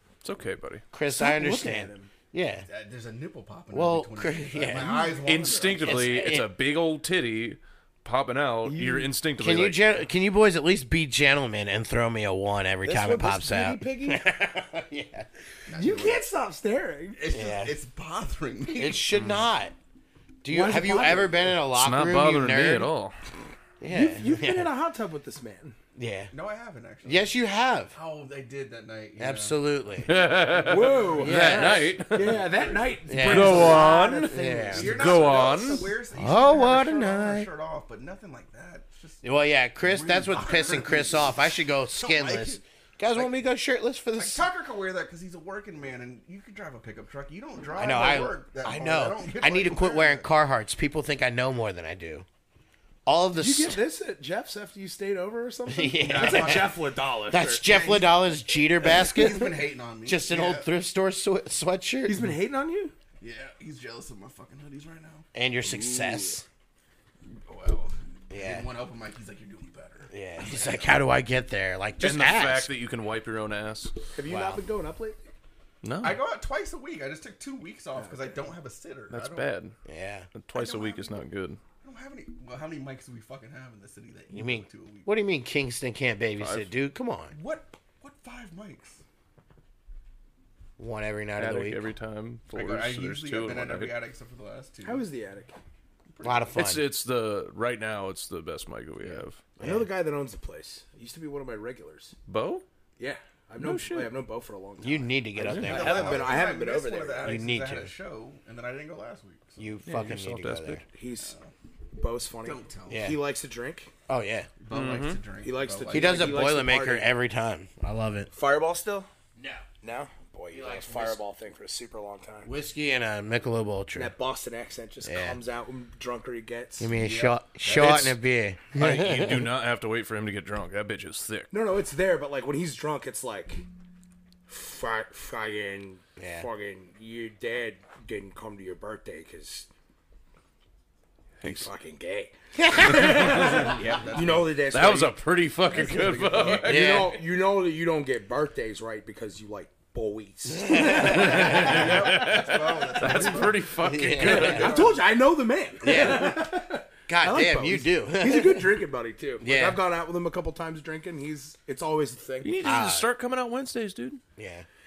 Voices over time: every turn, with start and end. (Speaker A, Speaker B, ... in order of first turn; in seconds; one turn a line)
Speaker A: 0.2-0.8
Speaker B: 0.9-2.7
Speaker C: 1.1-2.1
Speaker D: 2.7-6.0
Speaker B: 3.7-5.2
Speaker A: 5.2-9.9
Speaker B: 5.8-6.5
Speaker C: 8.6-9.1
Speaker B: 9.4-15.3
Speaker C: 12.9-14.2
Speaker D: 15.7-16.2
Speaker C: 15.8-17.2
Speaker D: 17.2-19.4
Speaker B: 17.3-17.7
Speaker B: 18.8-19.7
Speaker B: 20.4-22.9
Speaker C: 20.5-21.6
Speaker A: 21.7-23.2
Speaker B: 23.8-24.7
Speaker C: 23.9-25.8
Speaker B: 26.0-26.3
Speaker D: 26.3-27.3
Speaker B: 27.1-27.9
Speaker D: 27.9-29.6
Speaker B: 29.2-30.1
Speaker A: 30.1-32.5
Speaker C: 30.5-35.5
Speaker D: 30.6-31.6
Speaker B: 31.2-31.9
Speaker D: 32.2-39.2
Speaker B: 33.1-35.2
Speaker A: 33.2-35.9
Speaker B: 36.1-37.5
Speaker B: 39.2-44.4
Speaker D: 39.8-42.6
Speaker D: 44.1-50.3
Speaker B: 47.8-52.2
Speaker B: 53.1-53.8
Speaker C: 53.4-57.7
Speaker B: 55.7-56.8
Speaker D: 55.9-56.9
Speaker B: 57.3-62.3
Speaker D: 57.6-60.7
Speaker C: 62.0-62.9
Speaker D: 63.2-65.3
Speaker B: 65.3-66.5
Speaker C: 65.6-66.4
Speaker D: 67.5-70.9
Speaker B: 68.3-68.7
Speaker B: 70.1-72.7
Speaker A: 72.0-73.9
Speaker C: 74.2-75.2
Speaker B: 74.2-74.6
Speaker A: 75.8-76.2
Speaker D: 76.0-79.5
Speaker C: 78.0-78.4
Speaker A: 79.1-79.8
Speaker B: 79.9-80.3
Speaker A: 80.3-81.6
Speaker D: 80.5-81.2
Speaker D: 81.8-85.1
Speaker B: 84.3-87.3
Speaker A: 86.4-86.7
Speaker D: 87.3-89.0
Speaker B: 90.8-91.8
Speaker A: 91.4-94.0
Speaker D: 92.5-95.1
Speaker C: 94.8-95.5
Speaker D: 96.1-96.6
Speaker B: 96.2-96.9
Speaker A: 96.5-99.4
Speaker B: 99.6-99.9
Speaker C: 99.6-102.2
Speaker A: 102.3-102.7
Speaker C: 103.0-107.3
Speaker A: 103.6-104.2
Speaker B: 104.8-106.4
Speaker D: 105.5-109.7
Speaker B: 107.2-107.9
Speaker B: 109.6-110.8
Speaker A: 109.9-110.8
Speaker C: 110.9-111.3
Speaker D: 111.2-111.5
Speaker C: 112.0-113.9
Speaker D: 112.5-113.1
Speaker B: 112.9-113.2
Speaker B: 114.1-114.5
Speaker D: 114.6-116.5
Speaker A: 114.7-115.2
Speaker C: 115.4-117.1
Speaker B: 115.9-118.3
Speaker C: 118.3-119.1
Speaker B: 119.4-119.7
Speaker C: 119.8-122.5
Speaker B: 120.5-121.2
Speaker B: 122.5-124.1
Speaker C: 124.0-126.9
Speaker B: 125.0-125.4
Speaker B: 126.8-129.5
Speaker D: 126.9-128.2
Speaker A: 128.7-131.5
Speaker C: 131.5-133.6
Speaker C: 134.5-139.7
Speaker B: 136.2-136.5
Speaker A: 141.4-141.7
Speaker C: 141.4-145.2
Speaker B: 142.6-143.7
Speaker D: 143.0-144.7
Speaker A: 144.7-147.1
Speaker D: 145.7-146.7
Speaker C: 146.4-152.2
Speaker B: 146.6-147.2
Speaker B: 150.5-151.8
Speaker A: 150.9-154.8
Speaker D: 151.2-155.2
Speaker B: 153.8-154.7
Speaker C: 154.2-162.6
Speaker B: 155.8-156.6
Speaker B: 157.1-158.8
Speaker B: 159.4-159.8
Speaker A: 162.4-164.2
Speaker B: 162.6-163.1
Speaker B: 164.4-164.7